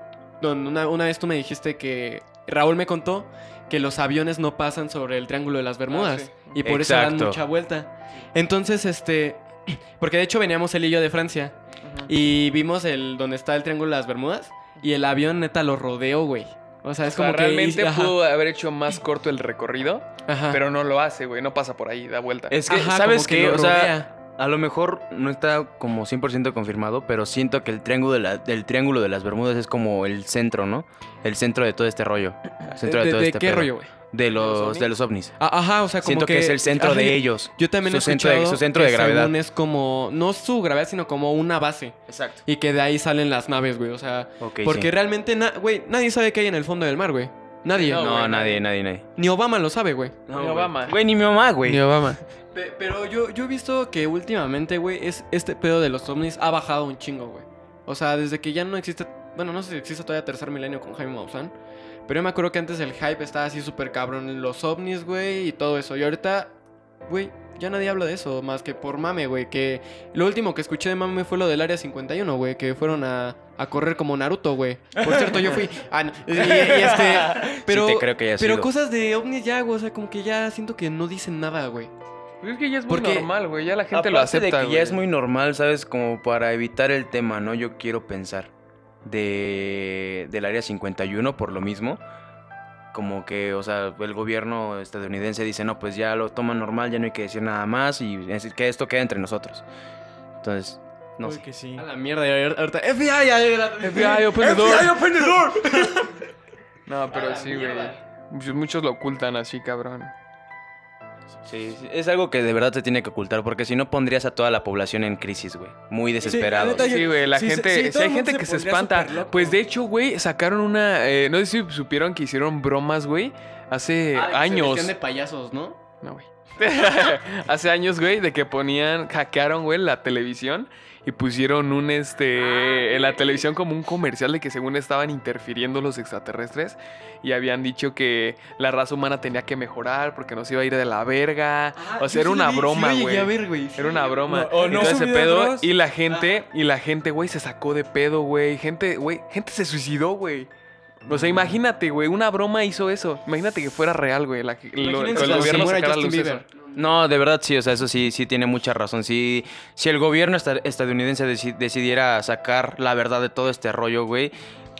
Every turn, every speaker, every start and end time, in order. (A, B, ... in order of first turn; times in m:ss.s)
0:00.4-0:18.2 A
0:05.9-0:06.6 B
0:06.6-0:07.4 C
0:11.8-0:12.1 B
0:17.0-0:22.6 B
0:20.2-0:20.6 A
0:22.5-0:35.3 C
0:22.7-0:24.1 A
0:32.7-0:33.9 A
0:34.3-0:34.9 B
0:35.4-0:48.1 A
0:36.0-0:39.3 C
0:42.1-0:42.4 C
0:44.4-0:44.9 C
0:47.7-0:48.6 B
0:47.9-0:49.0 C
0:49.1-0:50.2 A
0:50.3-0:51.8 C
0:50.3-0:51.0 B
0:51.6-0:52.2 B
0:52.5-1:01.5 A
1:02.1-1:06.5 A
1:07.1-1:21.9 A
1:15.0-1:15.4 D
1:16.4-1:18.7 C
1:22.4-1:25.0 B
1:22.9-1:23.3 A
1:23.9-1:28.5 C
1:29.0-1:32.0 C
1:32.9-1:39.6 C
1:40.4-1:41.4 C
1:41.2-1:41.8 D
1:41.8-1:46.1 A
1:43.8-1:45.0 B
1:44.2-1:46.1 D
1:46.9-1:50.1 B
1:47.1-1:48.0 A
1:51.4-1:56.9 C
1:56.2-1:59.6 D
1:56.6-2:04.9 B
2:04.1-2:05.8 A
2:06.0-2:30.5 B
2:12.4-2:13.4 A
2:21.7-2:24.2 A
2:24.3-2:25.7 D
2:24.5-2:25.1 C
2:26.1-2:26.4 A
2:31.0-2:36.4 B
2:31.1-2:31.5 C
2:34.8-2:36.7 A
2:35.1-2:35.7 C
2:36.7-2:44.3 C